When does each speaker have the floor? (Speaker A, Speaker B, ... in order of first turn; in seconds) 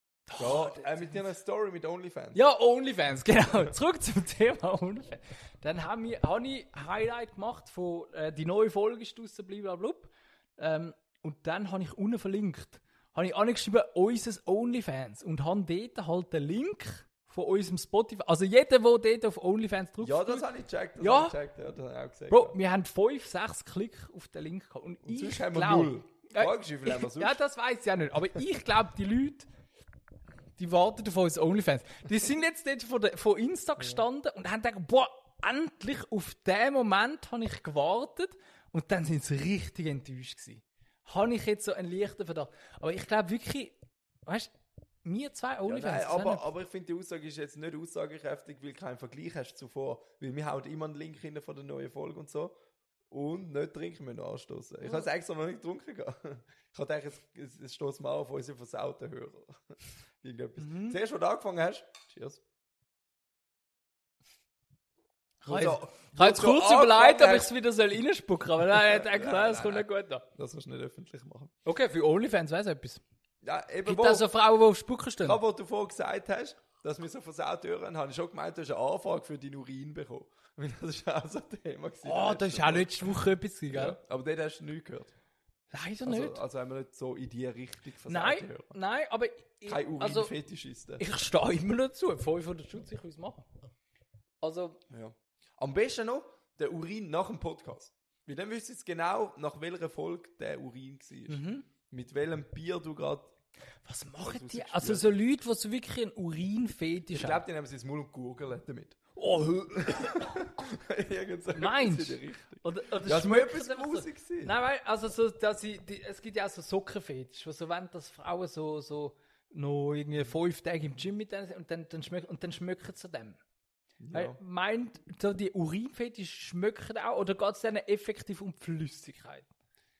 Speaker A: 0.3-1.1, 2.3-20.4, 21.0-21.4, 22.3-29.5, 30.6-44.5, 45.0-46.5, 60.6-61.0, 65.4-70.2, 71.6-73.0, 73.8-75.4, 82.0-84.0, 85.7-86.4, 88.1-90.3, 91.0-93.5, 94.4-94.8, 101.3-101.7, 103.8-107.4, 109.2-110.3, 111.5-123.4, 124.1-129.5
Speaker B: 0.3-2.4, 20.0-22.6, 25.0-27.4, 45.7-52.5, 53.1-62.4, 65.5-67.5, 68.6-71.5, 73.4-74.3, 75.2-85.1, 86.0-88.7, 89.7-91.0, 94.9-103.3, 104.2-105.1, 107.1-114.5, 124.0-124.4